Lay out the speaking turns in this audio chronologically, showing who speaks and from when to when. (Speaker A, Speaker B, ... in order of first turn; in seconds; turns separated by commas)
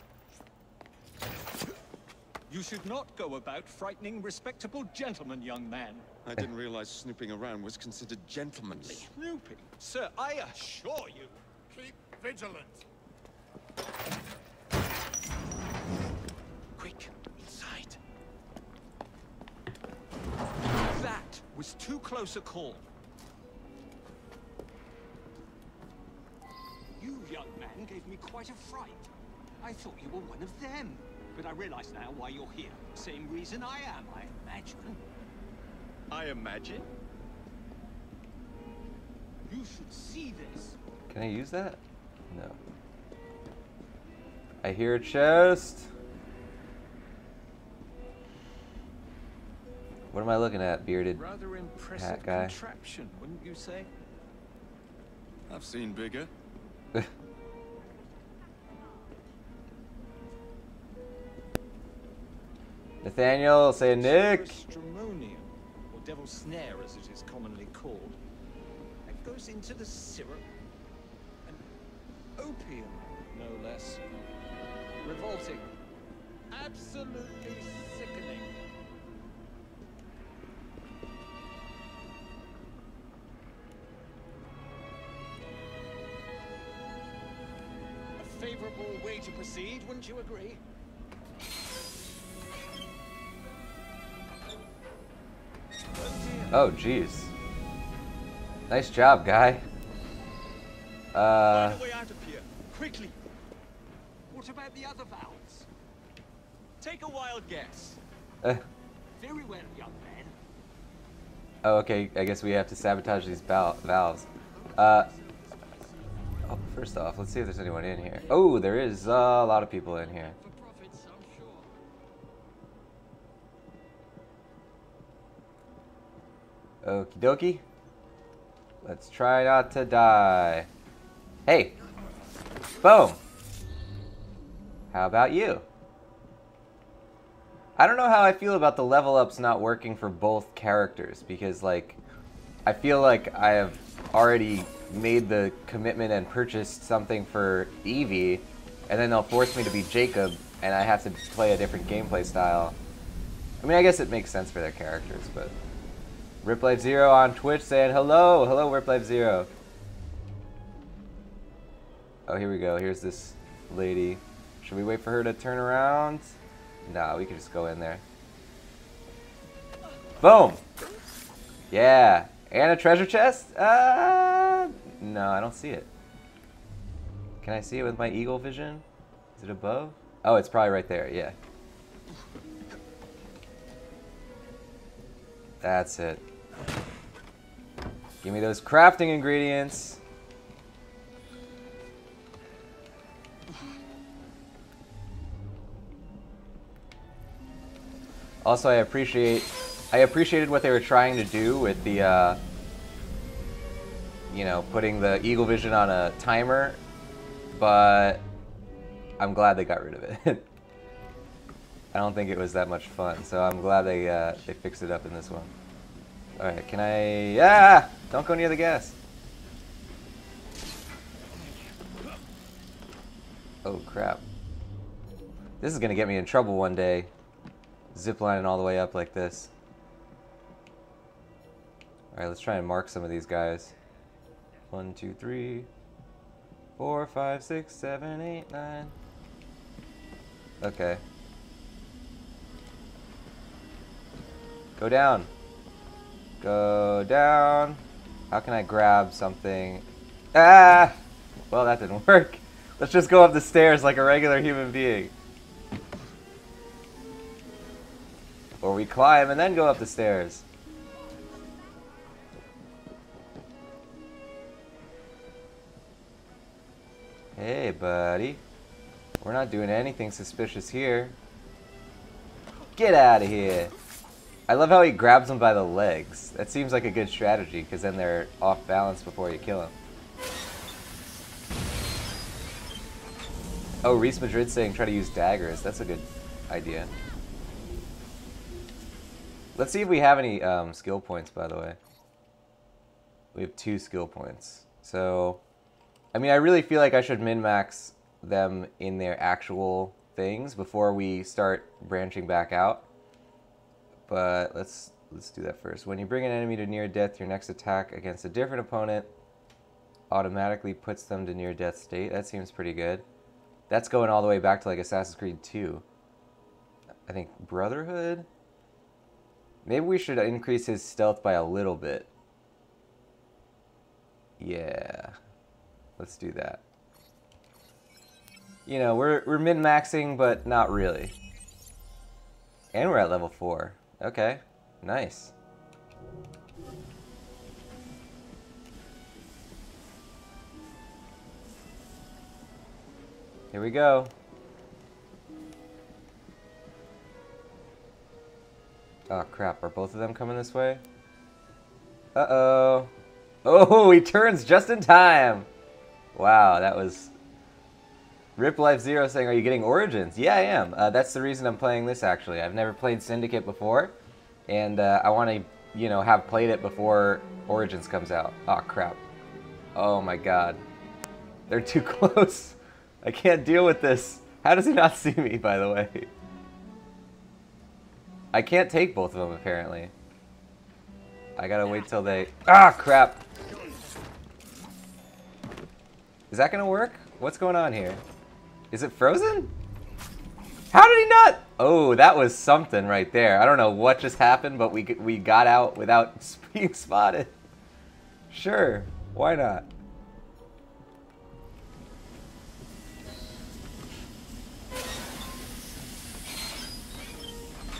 Speaker A: 2.5-6.0, Speaker B: 6.2-9.1, Speaker A: 8.8-11.4, Speaker A: 12.2-12.7, Speaker A: 16.8-18.0, Speaker A: 20.8-22.8, Speaker A: 27.0-29.1, Speaker A: 29.6-35.0, Speaker B: 36.1-36.9, Speaker A: 39.4-40.8, Speaker C: 41.1-42.6, Speaker C: 44.6-45.9, Speaker C: 50.1-51.2, Speaker A: 51.1-53.9, Speaker C: 52.0-52.5, Speaker B: 55.5-56.3, Speaker C: 63.0-64.6, Speaker A: 64.0-68.2, Speaker A: 69.0-70.4, Speaker A: 72.4-74.0, Speaker A: 75.0-75.7, Speaker A: 76.5-78.5, Speaker A: 88.2-90.6, Speaker A: 96.0-96.5, Speaker C: 96.5-97.3, Speaker C: 98.7-99.6, Speaker C: 101.1-101.8, Speaker A: 101.5-103.2, Speaker A: 104.3-105.7, Speaker A: 106.8-108.0, Speaker A: 109.1-110.3, Speaker C: 111.6-115.1, Speaker C: 116.5-120.4, Speaker A: 120.4-121.6, Speaker C: 126.8-127.6, Speaker C: 128.8-130.7, Speaker C: 131.4-131.7, Speaker C: 132.8-133.2, Speaker C: 134.9-135.6, Speaker C: 137.8-142.0, Speaker C: 142.7-152.8, Speaker C: 153.6-155.5, Speaker C: 156.4-159.5, Speaker C: 162.3-168.0, Speaker C: 170.2-170.6, Speaker C: 171.7-175.9, Speaker C: 177.4-178.8, Speaker C: 179.3-181.3, Speaker C: 185.6-186.2, Speaker C: 188.2-190.0, Speaker C: 198.4-202.4, Speaker C: 204.3-206.8, Speaker C: 207.6-208.2, Speaker C: 209.2-210.4, Speaker C: 211.9-215.5, Speaker C: 216.4-218.9, Speaker C: 223.6-224.2, Speaker C: 225.6-227.1, Speaker C: 227.9-229.5, Speaker C: 232.1-233.7, Speaker C: 234.7-235.7, Speaker C: 236.8-238.9, Speaker C: 240.6-241.0, Speaker C: 244.8-245.3, Speaker C: 246.4-251.0, Speaker C: 251.5-255.1, Speaker C: 258.6-260.4, Speaker C: 267.4-268.4, Speaker C: 269.2-271.1, Speaker C: 272.8-273.7, Speaker C: 274.5-279.7, Speaker C: 283.8-286.9, Speaker C: 289.6-291.8, Speaker C: 293.3-295.4, Speaker C: 296.1-302.8, Speaker C: 304.1-309.1, Speaker C: 310.1-313.0, Speaker C: 313.7-315.8, Speaker C: 317.1-318.3, Speaker C: 319.6-322.1, Speaker C: 324.4-325.1, Speaker C: 326.0-326.6, Speaker C: 328.6-331.1, Speaker C: 332.7-335.3, Speaker C: 343.5-344.1, Speaker C: 349.1-350.8, Speaker C: 352.1-352.9, Speaker C: 353.4-355.5, Speaker C: 356.1-357.1, Speaker C: 358.4-363.9, Speaker C: 364.5-369.0, Speaker C: 369.7-370.6, Speaker C: 371.5-376.1, Speaker C: 378.3-379.9, Speaker C: 381.4-383.2, Speaker C: 386.3-388.0, Speaker C: 388.7-389.5, Speaker C: 390.7-397.3, Speaker C: 398.3-399.7